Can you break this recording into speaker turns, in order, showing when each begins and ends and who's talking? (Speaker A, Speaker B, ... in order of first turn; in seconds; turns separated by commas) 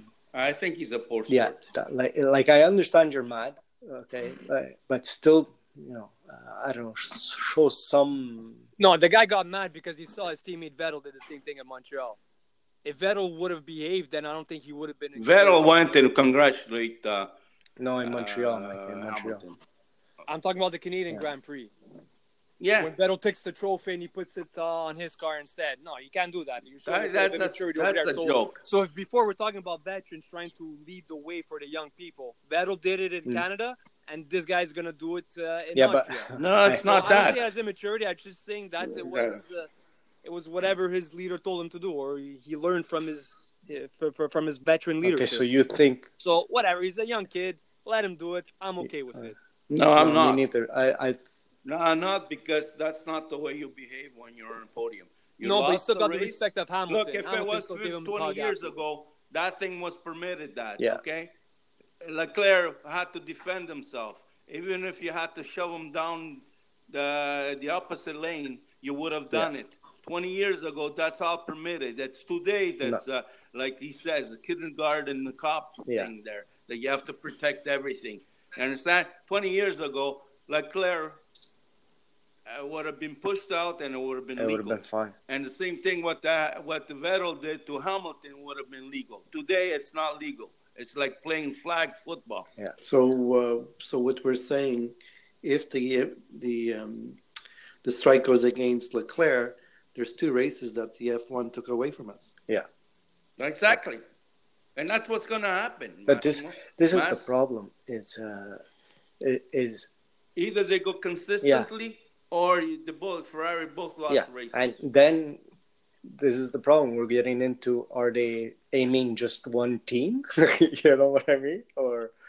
Speaker A: 0.3-1.7, Speaker B: 1.3-8.7, Speaker C: 8.8-12.2, Speaker C: 12.8-15.9, Speaker A: 15.2-17.3, Speaker B: 17.8-19.4, Speaker A: 18.0-19.6, Speaker C: 20.3-21.7, Speaker A: 22.6-22.9, Speaker C: 22.8-36.3, Speaker A: 26.8-28.6, Speaker B: 35.7-37.2, Speaker A: 36.4-37.5, Speaker C: 36.8-39.7, Speaker A: 38.8-39.4, Speaker C: 40.2-45.4, Speaker B: 45.0-46.1, Speaker C: 46.2-49.4, Speaker A: 49.7-50.4, Speaker B: 50.0-51.2, Speaker A: 51.6-61.3, Speaker C: 55.4-58.8, Speaker A: 62.0-81.2, Speaker B: 75.8-76.1, Speaker A: 82.5-92.5, Speaker B: 84.4-85.1, Speaker D: 92.8-97.2, Speaker D: 97.8-102.3, Speaker A: 103.4-104.0, Speaker A: 104.8-107.2, Speaker B: 106.1-108.6, Speaker B: 109.2-109.9, Speaker A: 110.3-114.7, Speaker B: 111.4-111.7, Speaker B: 114.1-115.4, Speaker B: 116.0-122.1